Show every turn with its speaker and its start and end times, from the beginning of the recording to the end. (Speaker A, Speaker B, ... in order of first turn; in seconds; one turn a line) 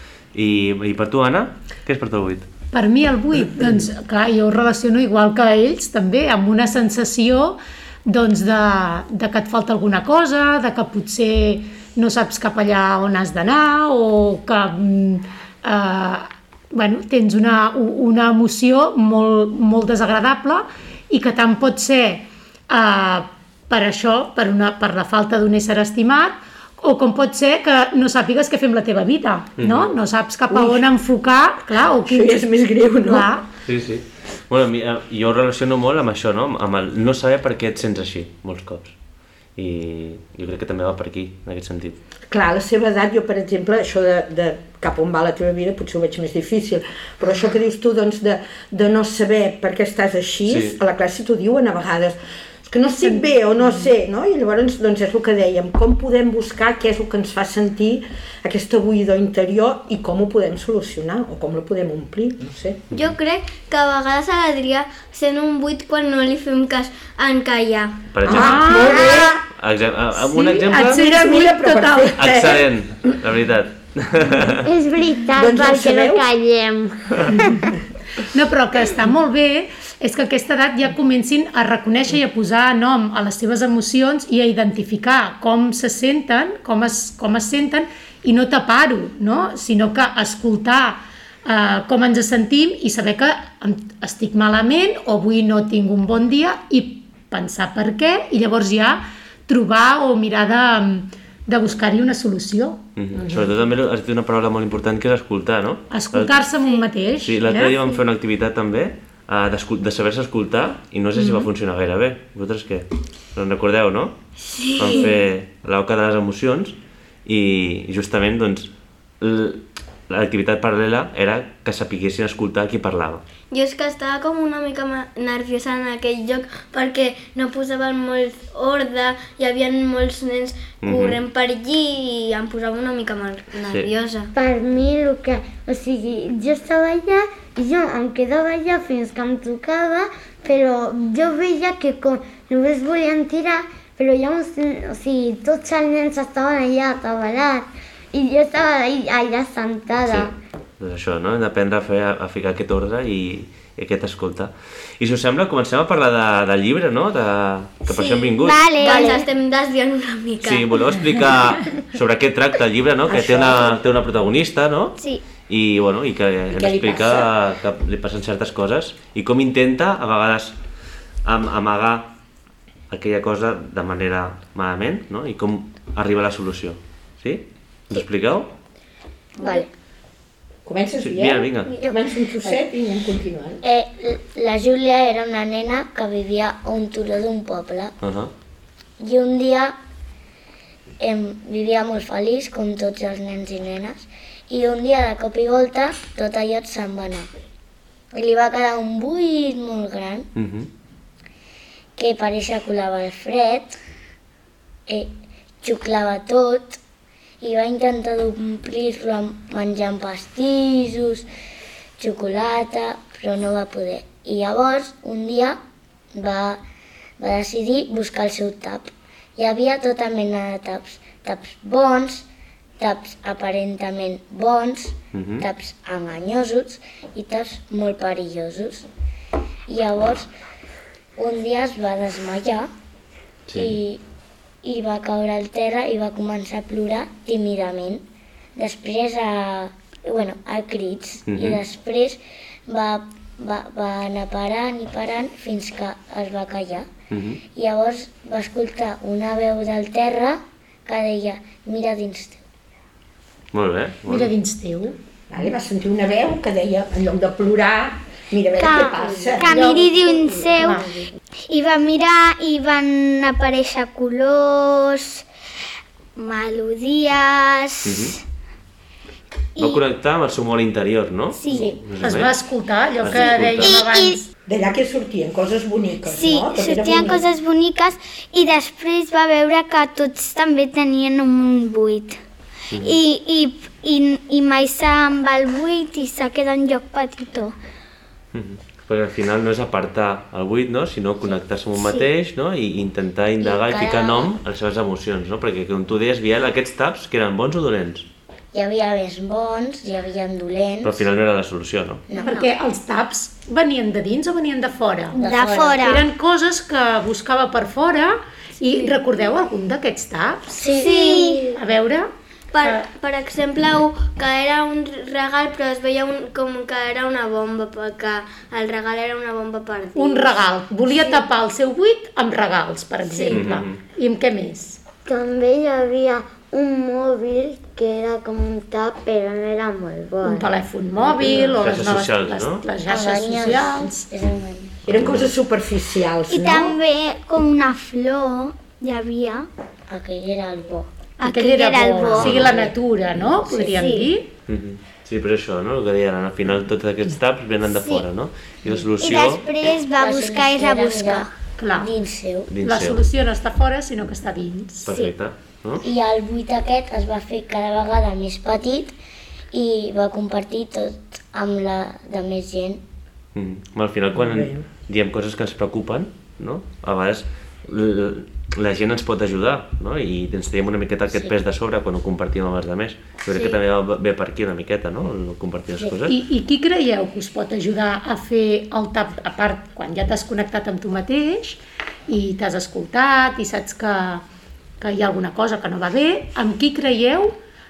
Speaker A: 0.3-2.5
Speaker B: 2.7-33.5
Speaker A: 29.6-29.9
Speaker C: 30.5-30.9
Speaker C: 32.0-33.3
Speaker A: 33.6-38.9
Speaker A: 39.5-42.0
Speaker C: 42.3-62.8
Speaker A: 50.5-50.8
Speaker B: 53.0-53.3
Speaker D: 62.9-68.1
Speaker A: 68.1-68.9
Speaker C: 68.2-69.4
Speaker B: 68.3-69.1
Speaker E: 68.9-69.3
Speaker A: 69.5-71.0
Speaker B: 70.3-72.1
Speaker C: 70.7-73.1
Speaker A: 72.2-74.7
Speaker E: 74.6-77.7
Speaker C: 75.3-76.2
Speaker B: 78.2-102.8
Speaker A: 103.0-106.5
Speaker C: 103.1-103.6
Speaker B: 105.9-107.8
Speaker A: 107.2-114.2
Speaker B: 111.2-111.5
Speaker D: 114.4-115.1
Speaker A: 114.8-118.7
Speaker A: 119.2-123.2
Speaker D: 123.5-134.3
Speaker A: 130.8-131.2
Speaker E: 134.3-150.3
Speaker A: 150.0-158.7
Speaker D: 157.8-160.7
Speaker F: 158.4-159.2
Speaker G: 158.8-159.2
Speaker A: 160.4-165.0
Speaker C: 163.1-163.8
Speaker F: 165.0-165.2
Speaker A: 165.5-170.6
Speaker C: 166.5-167.3
Speaker A: 171.2-172.1
Speaker A: 172.9-178.5
Speaker G: 179.4-179.7
Speaker C: 180.6-183.6
Speaker A: 181.0-181.7
Speaker G: 183.6-187.9
Speaker A: 188.0-188.3
Speaker G: 189.0-189.8
Speaker G: 191.0-197.3
Speaker G: 198.1-200.3
Speaker A: 200.3-200.7
Speaker G: 202.0-203.8
Speaker G: 204.9-206.8
Speaker G: 207.4-211.2
Speaker G: 212.0-215.6
Speaker G: 216.1-216.6
Speaker G: 217.2-222.2
Speaker G: 222.8-228.9
Speaker A: 225.1-225.4
Speaker G: 229.7-230.3
Speaker G: 231.2-232.7
Speaker A: 233.5-233.8
Speaker G: 233.5-234.0
Speaker G: 234.6-238.0
Speaker G: 238.6-246.9
Speaker A: 241.3-241.6
Speaker A: 247.1-247.4
Speaker G: 247.5-252.4
Speaker A: 253.5-254.3
Speaker B: 254.1-255.0
Speaker C: 255.3-259.6
Speaker F: 258.6-260.9
Speaker B: 259.4-259.9
Speaker B: 260.6-260.9
Speaker F: 261.5-265.2
Speaker F: 266.2-268.1
Speaker A: 267.8-268.2
Speaker F: 269.6-269.8
Speaker A: 269.6-272.3
Speaker F: 271.4-271.8
Speaker B: 272.0-274.3
Speaker A: 273.0-273.8
Speaker F: 273.6-274.2
Speaker C: 274.5-277.2
Speaker F: 276.1-282.2
Speaker A: 282.7-283.0
Speaker F: 282.8-287.5
Speaker A: 288.3-298.1
Speaker G: 293.4-294.3
Speaker G: 298.5-301.0
Speaker A: 300.8-302.0
Speaker G: 302.1-302.5
Speaker B: 302.2-305.2
Speaker F: 305.1-306.0
Speaker G: 305.1-305.9
Speaker B: 305.8-310.6
Speaker G: 310.5-311.6
Speaker F: 310.7-311.5
Speaker D: 311.1-311.3
Speaker B: 311.5-312.1
Speaker D: 312.5-321.2
Speaker B: 319.9-324.8
Speaker D: 323.0-323.4
Speaker A: 323.3-323.8
Speaker E: 325.1-330.6
Speaker B: 330.2-334.1
Speaker A: 331.0-332.6
Speaker G: 332.9-334.8
Speaker A: 334.9-335.3
Speaker C: 334.9-336.8
Speaker F: 336.3-339.5
Speaker G: 339.9-340.9
Speaker B: 341.2-344.3
Speaker F: 341.2-342.3
Speaker A: 342.2-342.6
Speaker A: 344.5-349.5
Speaker F: 347.8-348.0
Speaker F: 349.0-351.3
Speaker G: 350.0-352.5
Speaker B: 351.6-351.9
Speaker A: 352.5-353.0
Speaker B: 352.6-354.9
Speaker A: 354.9-355.8
Speaker G: 355.8-358.9
Speaker G: 359.5-362.8
Speaker A: 363.3-376.1
Speaker C: 364.1-364.6
Speaker B: 376.1-384.2
Speaker B: 384.8-387.4